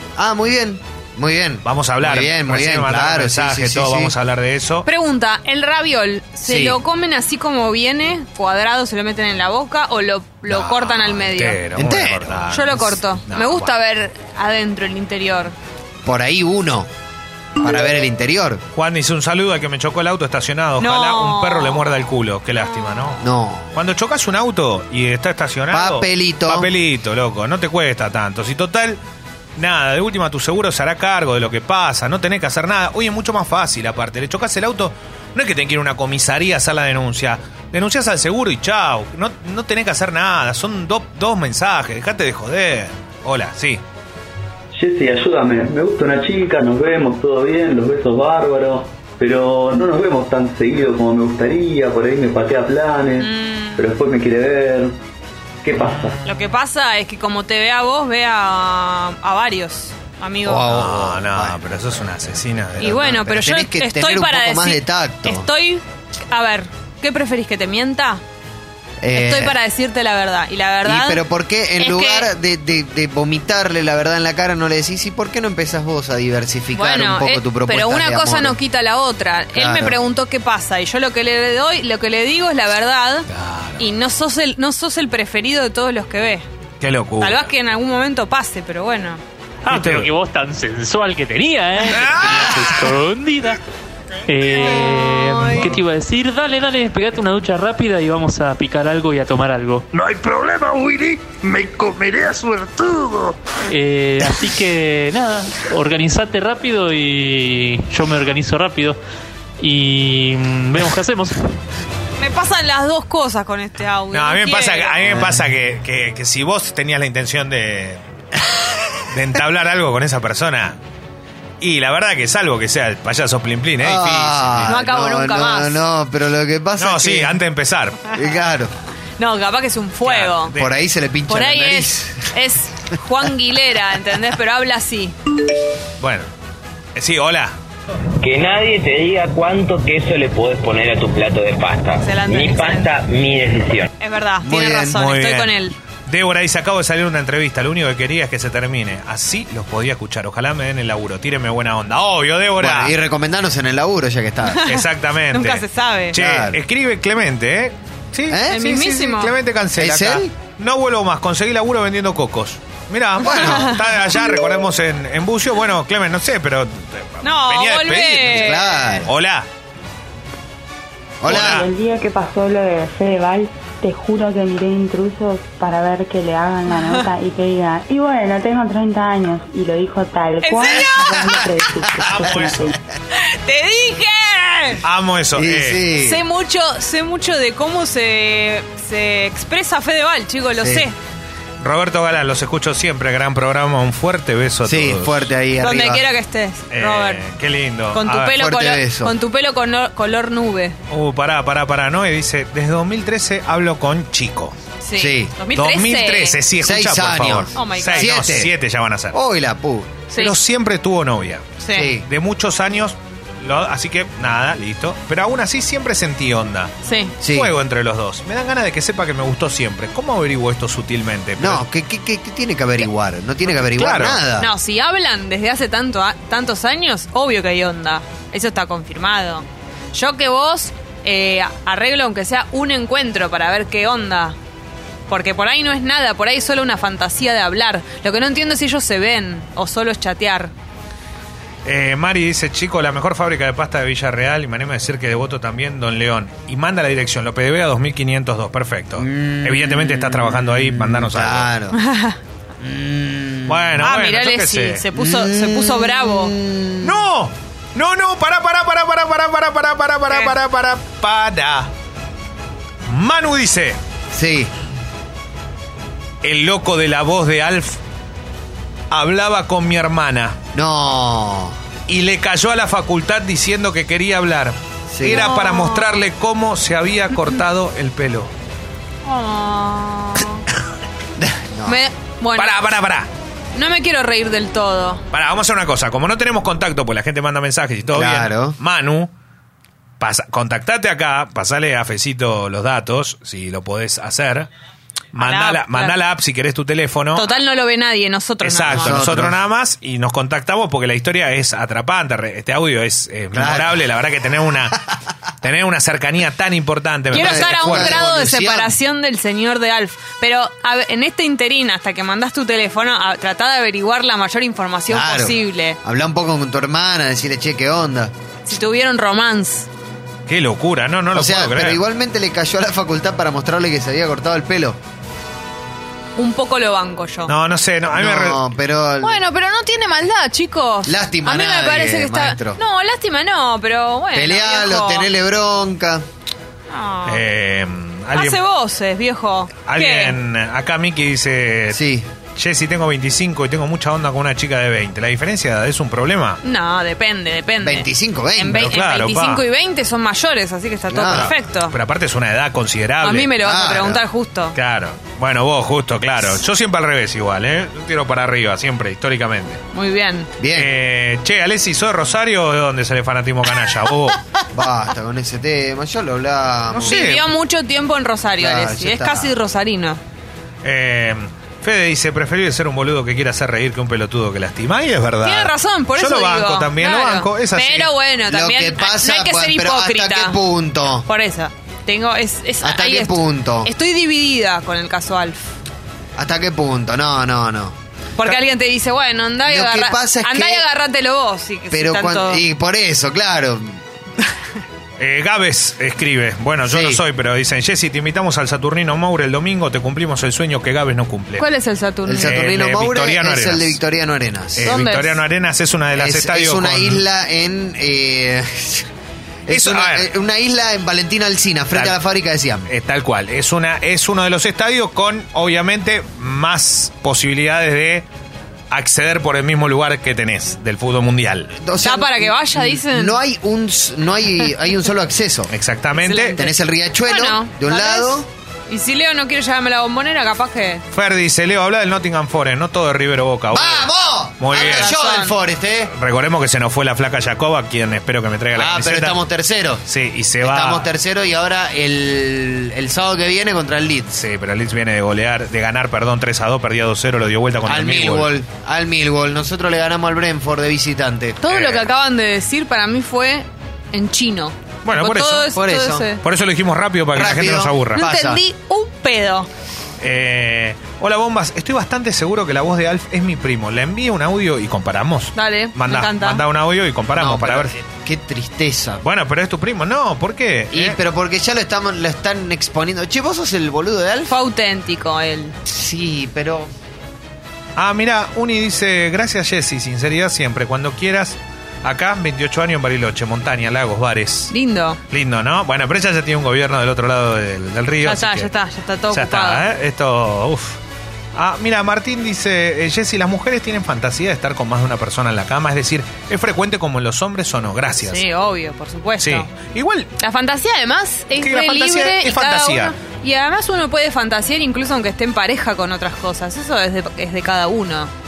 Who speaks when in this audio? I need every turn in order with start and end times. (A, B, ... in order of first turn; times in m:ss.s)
0:00.2-0:04.1 A
0:01.6-0:04.9 B
0:04.9-0:11.6 C
0:06.4-0:06.8 A
0:10.5-0:13.7 B
0:11.8-0:12.4 A
0:12.5-0:15.5 C
0:16.0-0:16.9 A
0:17.6-0:18.6 A
0:18.8-0:23.2 B
0:20.8-0:21.8 C
0:22.7-0:23.1 C
0:23.2-0:23.7 A
0:23.7-0:29.0 B
0:25.7-0:26.7 A
0:29.6-0:43.8 B
0:44.7-0:55.0 D
0:53.2-0:53.8 C
0:55.6-0:56.2 D
0:56.2-1:00.7 C
1:00.4-1:01.6 A
1:00.7-1:03.2 B
1:02.8-1:08.2 C
1:02.8-1:05.5 A
1:09.0-1:09.6 A
1:09.1-1:11.2 C
1:10.8-1:18.6 A
1:11.8-1:12.3 C
1:16.7-1:26.4 C
1:19.5-1:20.0 A
1:23.3-1:23.8 B
1:26.8-1:27.5 B
1:27.2-1:29.2 C
1:29.7-1:33.6 E
1:29.7-1:30.1 B
1:31.9-1:32.8 B
1:34.3-1:39.9 E
1:34.6-1:35.7 C
1:39.9-1:43.4 F
1:43.7-1:49.0 E
1:49.6-1:51.4 E
1:52.2-1:55.1 C
1:54.1-1:58.0 B
1:59.1-2:00.8 B
2:01.6-2:04.7 B
2:03.8-2:07.4 A
2:04.7-2:05.8 C
2:06.8-2:08.1 B
2:08.1-2:08.7 A
2:09.2-2:10.5 C
2:10.0-2:10.7 B
2:10.5-2:12.3 A
2:11.3-2:15.2 C
2:16.0-2:16.3 B
2:17.0-2:17.6 B
2:18.2-2:23.9 G
2:22.0-2:22.9 C
2:24.0-2:25.8 C
2:24.4-2:25.0 A
2:24.9-2:25.6 B
2:26.1-2:33.0 B
2:32.6-2:34.7 A
2:34.5-2:36.2 C
2:34.6-2:49.5 B
2:36.1-2:36.6 A
2:38.3-2:38.6 A
2:38.5-2:39.3 C
2:39.8-2:40.3 A
2:43.2-2:43.7 A
2:43.2-2:43.8 C
2:47.2-2:49.0 C
2:48.3-2:49.1 A
2:51.2-2:51.6 A
2:51.2-2:51.7 B
2:51.3-3:02.7 H
2:56.7-2:57.0 C
3:00.4-3:01.4 C
3:02.0-3:02.7 B
3:03.1-3:04.8 C
3:04.8-3:05.9 B
3:05.4-3:06.2 A
3:06.0-3:11.0 C
3:10.6-3:10.9 A
3:11.6-3:15.3 B
3:14.6-3:16.0 A
3:15.6-3:17.2 C
3:16.7-3:18.4 B
3:17.9-3:20.8 C
3:18.3-3:19.1 A
3:20.9-3:24.6 B
3:24.8-3:26.4 C
3:25.0-3:25.3 A
3:25.5-3:29.2 B
3:26.6-3:28.5 A
3:27.6-3:28.1 C
3:29.1-3:30.0 A
3:30.2-3:31.5 B
3:31.6-3:31.9 C
3:31.7-3:32.1 A
3:32.0-3:41.6 B
3:36.8-3:37.1 C
3:37.2-3:37.5 A
3:41.4-3:44.5 A
3:43.7-3:44.2 B
3:44.4-3:54.4 C
3:55.1-4:00.5 C
4:01.6-4:11.5 B
4:09.0-4:11.8 A
4:11.7-4:12.2 C
4:12.6-4:13.8 A
4:13.5-4:14.8 B
4:13.8-4:16.4 C
4:15.0-4:17.1 A
4:16.8-4:21.7 B
4:22.9-4:23.8 B
4:24.1-4:24.5 A
4:26.2-4:27.8 B
4:28.9-4:30.4 B
4:30.5-4:31.6 A
4:31.9-4:38.3 B
4:34.9-4:35.3 A
4:35.0-4:35.9 C
4:39.0-4:40.4 C
4:41.2-4:41.8 A
4:41.7-4:42.6 C
4:42.4-4:43.1 B
4:43.6-4:45.0 C
4:45.1-4:49.1 B
4:47.9-4:48.6 A
4:50.0-4:54.5 B
4:55.1-4:57.3 B
4:55.2-4:56.0 C
4:57.2-4:59.0 C
4:58.4-5:04.8 B
4:58.7-4:59.4 A
5:03.3-5:03.8 A
5:05.4-5:08.0 B
5:07.1-5:08.8 A
5:07.1-5:15.8 C
5:14.9-5:18.1 A
5:18.5-5:19.7 C
5:20.3-5:21.8 B
5:21.1-5:24.8 A
5:26.2-5:27.3 C
5:27.3-5:28.4 B
5:27.9-5:29.2 A
5:29.0-5:35.1 C
5:30.8-5:32.6 A
5:34.1-5:36.0 A
5:36.7-5:37.2 C
5:37.1-5:38.4 B
5:38.1-5:40.2 C
5:39.7-5:41.8 B
5:41.7-5:42.1 A
5:42.4-5:46.4 B
5:46.4-5:51.7 C
5:47.6-5:48.8 A
5:48.6-5:49.4 B
5:50.9-5:51.3 A
5:51.1-5:53.4 B
5:53.0-5:54.5 C
5:53.4-5:54.0 A
5:54.6-5:59.6 B
5:59.7-6:00.3 C
6:00.4-6:00.7 A
6:00.5-6:04.2 B
6:04.5-6:07.0 A
6:06.8-6:07.3 B
6:06.8-6:10.0 C
6:08.4-6:09.3 A
6:10.6-6:17.9 B
6:15.2-6:20.4 C
6:18.3-6:21.1 A
6:21.0-6:25.5 C
6:22.6-6:23.7 A
6:26.2-6:27.8 A
6:28.2-6:32.4 C
6:29.4-6:30.6 A
6:31.7-6:33.8 A
6:35.0-6:41.5 B
6:36.7-6:37.0 A
6:41.4-6:42.4 C
6:42.1-6:44.7 A
6:42.2-6:43.8 B
6:44.6-6:47.0 B
6:44.6-6:45.2 C
6:46.0-6:48.9 A
6:49.5-6:52.7 A
6:49.5-6:50.1 B
6:52.7-6:58.1 B
6:58.7-7:01.6 B
7:01.6-7:05.5 A
7:01.8-7:03.2 C
7:05.5-7:06.4 B
7:06.0-7:10.8 C
7:06.4-7:08.3 A
7:10.9-7:15.0 B
7:13.5-7:15.9 A
7:14.5-7:15.4 C
7:15.9-7:19.2 B
7:18.6-7:19.8 A
7:19.9-7:20.9 B
7:20.4-7:24.1 A
7:24.1-7:28.3 B
7:27.6-7:31.6 A
7:31.4-7:36.2 C
7:31.5-7:31.8 B
7:34.8-7:35.5 B
7:35.5-7:36.1 A
7:36.2-7:38.0 B
7:37.1-7:38.4 A
7:38.0-7:39.5 C
7:40.0-7:47.7 B
7:45.4-7:46.4 C
7:47.2-7:49.0 A
7:49.0-7:51.0 B
7:50.7-7:54.3 A
7:54.3-7:55.6 C
7:55.7-7:56.7 A
7:57.8-8:04.5 B
8:04.5-8:05.0 C
8:05.1-8:08.5 B
8:08.0-8:09.6 C
8:09.1-8:10.8 B
8:11.4-8:18.2 B
8:18.0-8:19.5 C
8:19.2-8:20.1 B
8:20.2-8:28.1 C
8:21.4-8:22.9 B